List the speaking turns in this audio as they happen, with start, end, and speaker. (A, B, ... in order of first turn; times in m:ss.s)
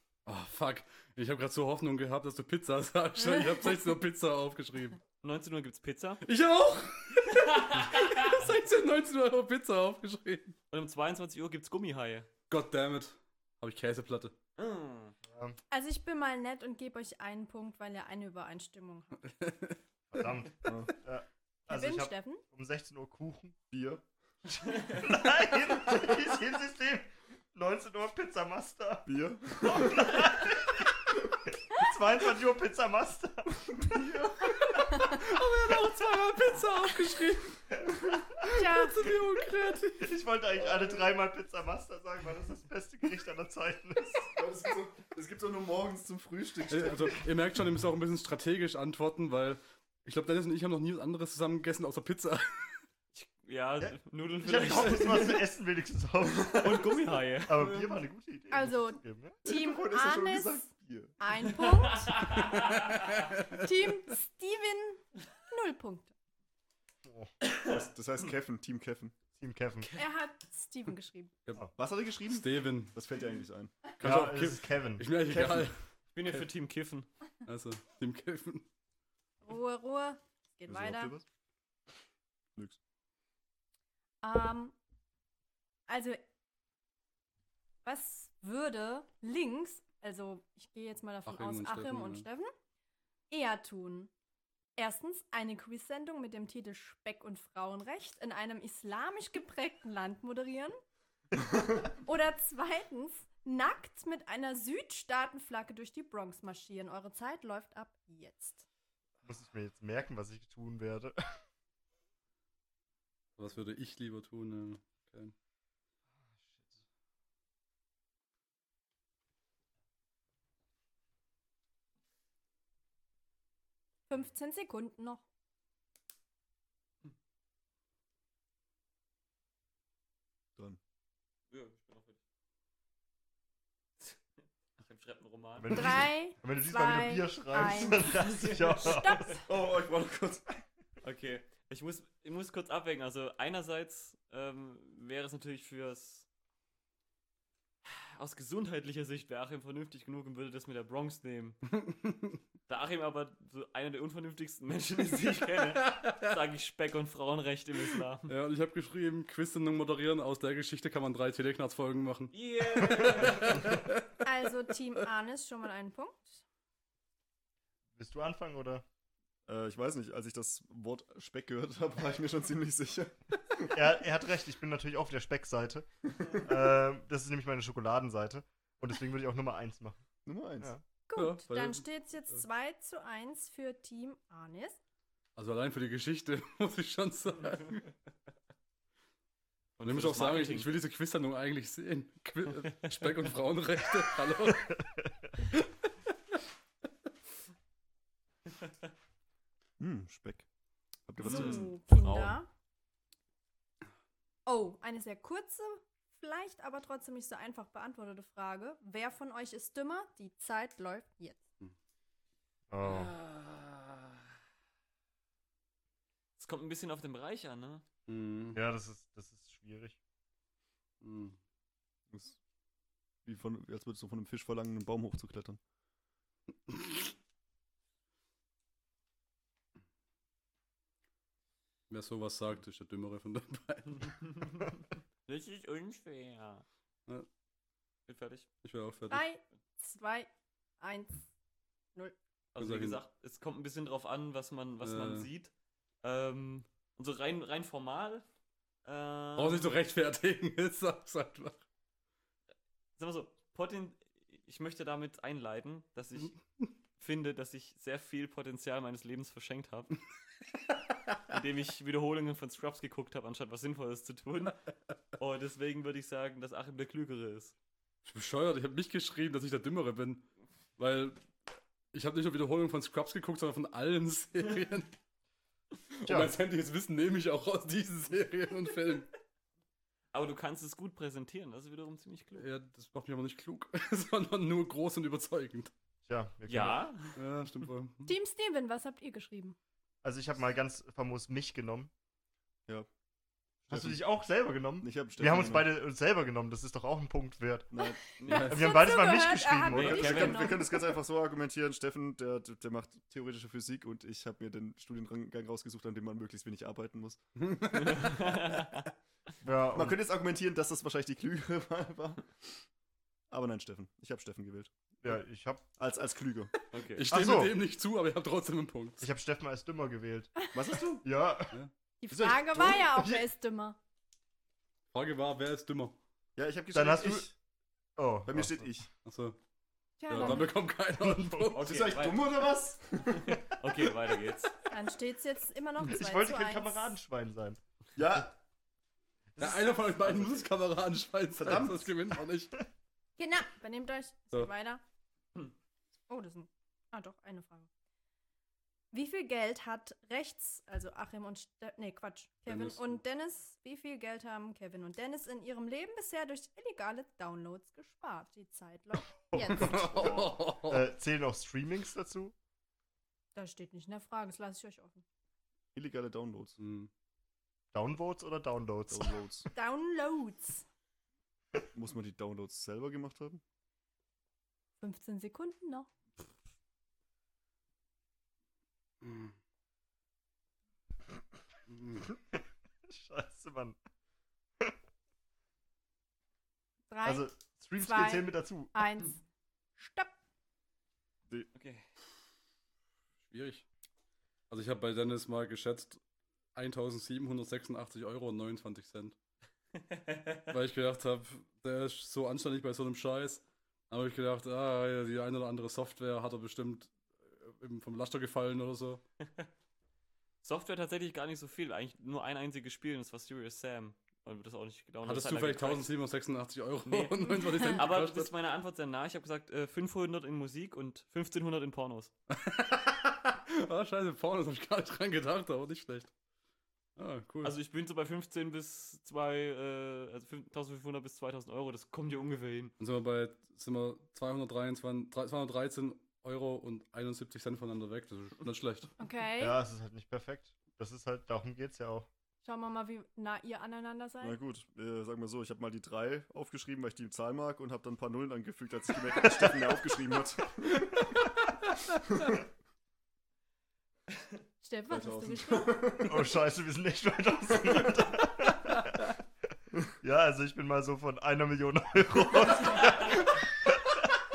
0:00.3-0:05.0 A
0:05.2-0:06.2 B
0:06.2-0:10.6 A
0:07.2-0:08.4 B
0:10.7-0:12.3 B
0:12.5-0:14.4 A
0:14.6-0:15.2 B
0:15.3-0:15.6 C
0:15.7-0:19.3 D
0:19.4-0:19.8 A
0:20.1-0:23.6 C
0:20.6-0:20.9 E
0:21.7-0:22.4 D
0:23.7-0:24.0 E
0:24.6-0:29.1 C
0:29.0-0:30.2 E
0:29.6-0:35.1 C
0:33.9-0:34.5 E
0:35.0-0:37.6 A
0:38.4-0:40.1 A
0:38.5-0:39.0 D
0:40.0-0:44.3 C
0:40.6-0:41.1 E
0:44.2-0:47.3 E
0:46.7-0:52.8 A
0:53.2-0:55.5 B
0:53.8-0:59.4 C
0:56.6-0:57.8 B
0:57.6-0:57.9 E
0:58.5-1:00.7 D
0:59.4-1:01.1 E
1:01.2-1:02.2 D
1:01.9-1:03.1 B
1:02.5-1:03.6 A
1:03.4-1:06.1 D
1:07.5-1:07.7 B
1:07.6-1:09.2 E
1:09.4-1:09.9 C
1:10.0-1:11.3 D
1:11.8-1:13.8 E
1:12.3-1:12.9 A
1:14.0-1:16.4 A
1:14.0-1:15.7 C
1:16.1-1:17.1 B
1:17.4-1:18.7 A
1:19.4-1:21.2 D
1:20.7-1:21.2 E
1:24.2-1:24.8 D
1:25.9-1:26.2 D
1:27.8-1:32.5 D
1:31.3-1:32.3 A
1:33.3-1:34.1 D
1:34.8-1:40.8 D
1:42.0-1:48.7 D
1:49.3-1:51.2 C
1:53.4-1:55.3 A
2:04.1-2:05.2 D
2:11.5-2:12.2 B
2:14.8-2:15.8 B
2:15.6-2:19.4 C
2:15.7-2:19.5 D
2:18.4-2:18.7 B
2:19.5-2:20.4 E
2:21.0-2:26.3 B
2:27.8-2:31.6 B
2:31.7-2:32.4 A
2:32.7-2:38.3 B
2:35.8-2:36.2 A
2:38.3-2:44.2 A
2:42.3-2:43.8 B
2:44.2-2:46.4 D
2:48.0-2:48.8 C
2:49.5-2:53.7 E
2:53.7-3:00.0 C
3:00.2-3:00.7 E
3:01.1-3:04.8 D
3:01.2-3:01.9 A
3:05.4-3:07.9 A
3:09.8-3:10.8 B
3:09.8-3:14.7 A
3:15.5-3:15.9 A
3:19.8-3:20.5 E
3:21.1-3:21.7 E
3:21.2-3:22.4 B
3:21.2-3:22.5 D
3:24.5-3:31.4 D
3:32.7-3:33.2 C
3:32.8-3:34.0 B
3:36.4-3:37.8 B
3:38.1-3:38.6 A
3:38.5-3:40.0 C
3:41.0-3:41.4 A
3:42.1-3:42.4 E
3:43.2-3:45.6 E
3:46.7-3:47.1 A
3:51.9-3:54.1 A
3:53.9-3:56.6 B
3:58.1-3:58.5 B
3:58.6-3:59.3 A
3:59.1-4:00.3 D
4:00.8-4:01.3 D
4:02.5-4:05.5 B
4:02.6-4:03.0 A
4:04.8-4:05.3 A
4:06.0-4:08.2 B
4:08.8-4:09.7 B
4:09.4-4:11.6 A
4:13.0-4:16.4 B
4:17.0-4:19.9 B
4:21.3-4:24.6 B
4:25.2-4:27.6 B
4:28.0-4:30.2 A
4:30.8-4:34.9 A
4:35.9-4:39.1 A
4:36.1-4:36.4 C
4:40.1-4:42.5 B
4:42.4-4:45.7 A
4:46.1-4:46.8 C
4:46.5-4:47.7 B
4:47.2-4:48.1 A
4:48.1-4:49.6 D
4:50.0-4:51.9 C
4:53.7-4:54.0 E
4:53.7-4:57.7 C
4:54.8-4:55.7 E
4:57.7-4:58.0 E
4:57.8-5:00.9 D
4:58.2-4:58.5 B
4:58.3-4:58.8 A
4:58.4-5:00.2 C
4:59.7-5:08.2 E
4:59.7-5:00.6 B
5:07.4-5:08.2 A
5:07.8-5:08.9 B
5:09.4-5:10.0 C
5:09.7-5:12.6 E
5:13.3-5:14.7 E
5:15.0-5:15.7 C
5:15.8-5:16.5 E
5:16.7-5:17.0 B
5:16.9-5:19.0 A
5:17.1-5:17.6 C
5:19.0-5:20.5 C
5:20.5-5:21.0 E
5:21.0-5:21.6 C
5:22.0-5:23.8 D
5:22.1-5:23.2 E
5:24.9-5:26.0 A
5:26.4-5:27.3 E
5:26.7-5:27.3 C
5:28.0-5:28.7 C
5:28.3-5:28.9 E
5:29.0-5:29.4 A
5:30.0-5:30.5 D
5:30.1-5:31.7 A
5:31.5-5:32.3 B
5:31.6-5:33.4 E
5:33.1-5:34.5 B
5:34.7-5:37.0 D
5:35.9-5:37.6 C
5:38.0-5:38.3 E
5:39.4-5:42.5 A
5:39.4-5:40.2 C
5:41.4-5:41.9 E
5:43.2-5:44.8 D
5:46.1-5:47.7 D
5:48.9-5:59.7 D
5:52.5-5:53.0 A
5:59.3-6:02.3 C
5:59.4-6:00.9 A
5:59.7-6:00.2 E
6:03.4-6:05.0 D
6:05.8-6:06.6 E
6:06.6-6:06.9 A
6:07.7-6:09.1 C
6:08.9-6:09.5 E
6:09.5-6:10.6 D
6:11.7-6:13.4 E
6:14.8-6:15.9 D
6:19.0-6:19.3 A
6:21.7-6:22.0 A
6:22.9-6:23.8 C
6:26.9-6:29.2 D
6:27.0-6:28.7 C
6:29.8-6:30.1 D
6:31.6-6:31.8 B
6:33.3-6:33.7 A
6:34.5-6:36.0 A
6:36.5-6:39.2 A
6:39.8-6:40.5 B
6:40.5-6:49.0 A
6:50.4-6:55.9 B
6:55.0-6:58.3 A
6:56.9-7:02.1 B
7:02.3-7:06.1 A
7:07.0-7:07.6 A
7:07.4-7:12.7 B
7:12.8-7:18.9 A
7:19.0-7:19.6 D
7:19.4-7:22.1 C
7:22.4-7:24.4 D
7:24.2-7:31.1 E
7:32.0-7:32.4 E
7:34.6-7:35.9 D
7:34.9-7:36.4 E
7:36.0-7:39.1 C
7:40.0-7:44.2 C